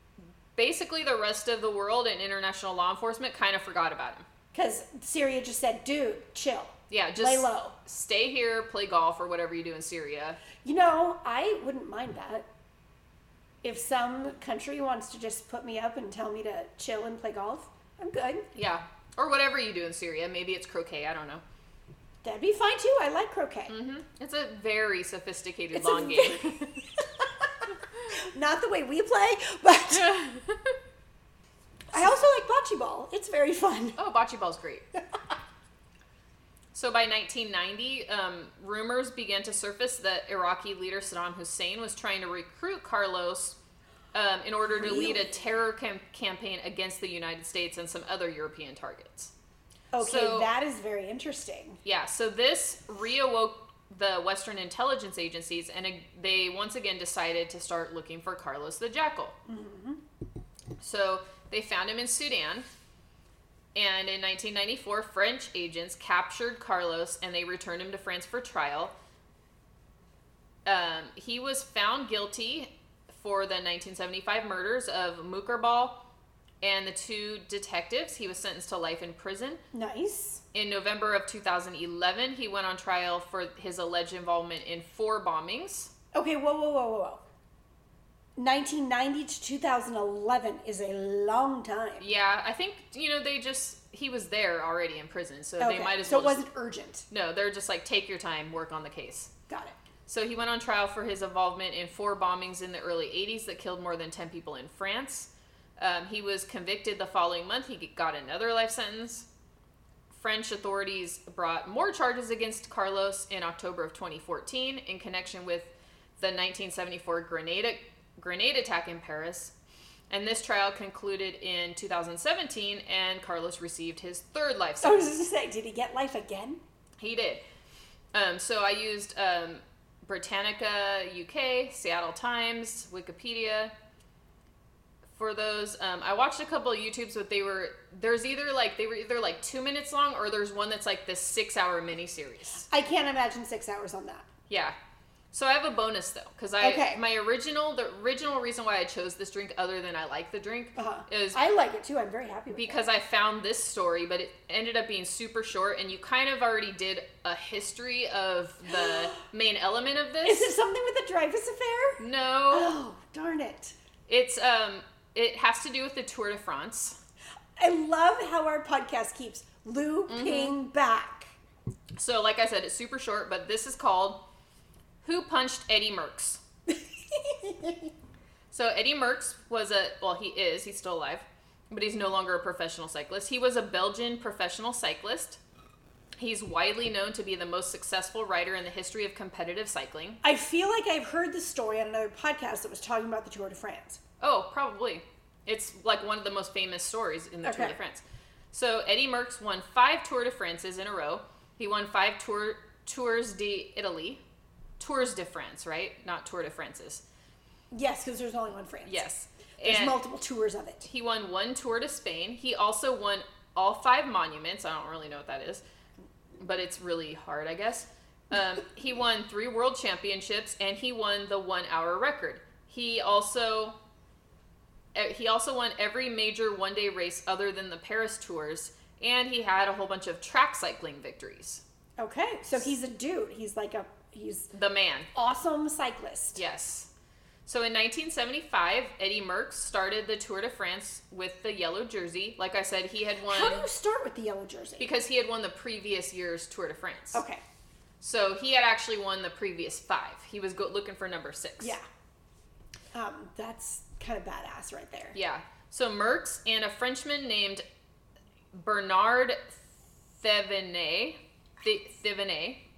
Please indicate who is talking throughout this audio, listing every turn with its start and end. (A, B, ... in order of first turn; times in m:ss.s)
0:00.6-0:04.2 A
0:04.5-0:07.7 B
0:06.9-0:10.4 A
0:10.6-0:12.5 B
0:13.6-0:18.5 B
0:18.5-0:21.4 A
0:22.2-0:23.7 B
0:23.7-0:26.8 A
0:25.7-0:26.5 B
0:27.2-0:30.1 B
0:29.9-0:30.8 A
0:31.9-0:34.0 B
0:34.0-0:34.8 A
0:36.7-0:43.6 A
0:44.1-0:49.3 A
0:44.7-0:45.3 B
0:49.9-0:51.8 B
0:50.0-0:50.5 A
0:51.8-0:59.4 A
0:59.5-1:00.0 B
1:00.8-1:02.7 A
1:03.7-1:08.9 A
1:10.6-1:16.0 A
1:16.6-1:19.6 A
1:19.7-1:20.4 B
1:20.5-1:25.9 A
1:26.1-1:27.2 B
1:28.4-1:32.0 B
1:32.0-1:36.4 A
1:35.6-1:37.0 B
1:37.1-1:39.3 A
1:39.5-1:39.8 B
1:40.1-1:49.3 A
1:50.1-1:59.5 A
2:00.1-2:05.1 A
2:04.8-2:06.6 B
2:07.0-2:07.4 A
2:08.1-2:13.7 A
2:15.1-2:22.6 A
2:22.7-2:24.3 B
2:24.5-2:24.7 A
2:25.3-2:31.4 A
2:26.6-2:27.0 B
2:30.8-2:32.8 B
2:32.5-2:40.5 A
2:40.2-2:42.0 B
2:42.0-2:42.7 A
2:42.5-2:43.7 B
2:44.1-2:47.0 A
2:47.6-2:51.3 B
2:50.1-2:50.5 A
2:52.0-2:54.2 A
2:55.0-2:56.4 A
2:57.1-2:57.9 B
2:58.5-3:05.4 A
3:06.2-3:10.2 A
3:10.2-3:14.0 B
3:14.2-3:24.2 A
3:17.4-3:17.8 B
3:24.8-3:27.0 A
3:27.7-3:29.0 B
3:28.9-3:30.0 A
3:29.6-3:30.9 B
3:30.8-3:35.6 A
3:36.4-3:43.8 A
3:44.9-3:51.6 A
3:52.0-3:54.5 B
3:54.5-3:55.1 A
3:55.1-3:56.4 B
3:56.4-3:56.9 A
3:57.4-4:03.7 A
4:03.2-4:04.9 B
4:04.8-4:07.2 A
4:07.1-4:07.4 B
4:08.0-4:11.8 A
4:12.9-4:15.2 B
4:15.1-4:17.6 A
4:18.5-4:19.6 A
4:20.2-4:22.6 A